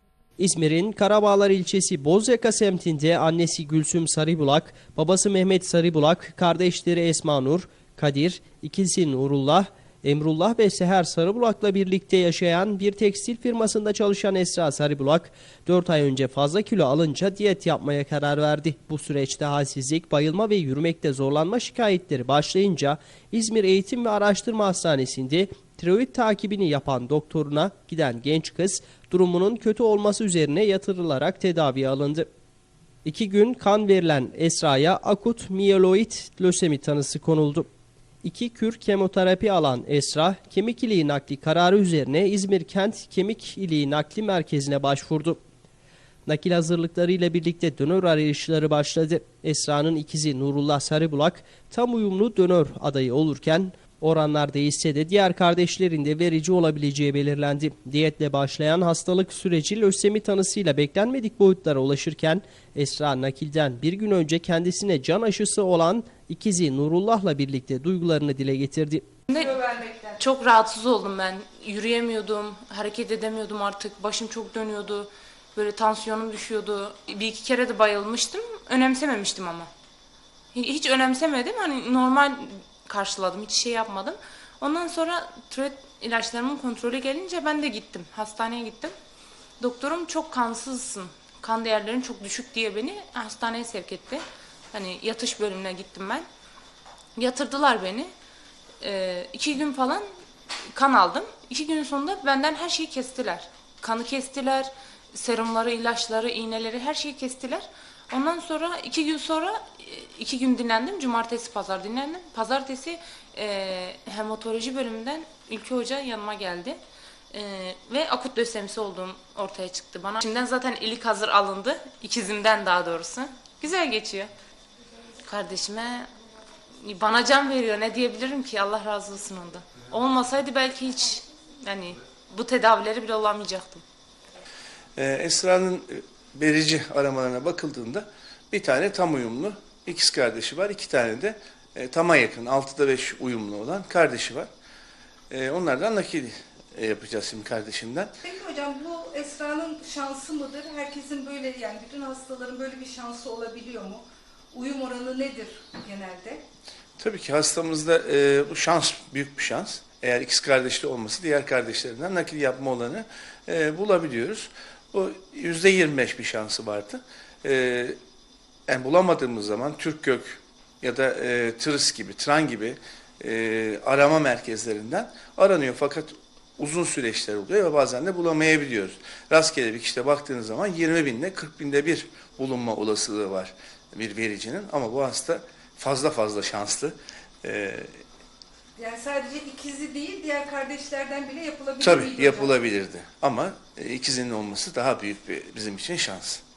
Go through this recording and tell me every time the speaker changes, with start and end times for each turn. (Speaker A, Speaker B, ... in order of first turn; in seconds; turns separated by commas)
Speaker A: 0.4-32.3, Speaker A: 33.0-37.7, Speaker A: 38.2-45.4, Speaker A: 46.3-69.0, Speaker B: 69.3-79.7, Speaker C: 69.4-70.2, Speaker B: 80.5-88.9, Speaker B: 89.6-96.3, Speaker B: 97.2-98.1, Speaker B: 98.8-100.1, Speaker B: 100.7-116.8, Speaker B: 117.3-124.3, Speaker B: 125.3-126.1, Speaker B: 126.8-133.8, Speaker D: 135.0-144.5, Speaker D: 145.3-148.1, Speaker C: 148.2-156.4, Speaker D: 157.0-168.0, Speaker D: 168.7-188.0, Speaker C: 188.8-192.5, Speaker D: 191.8-196.4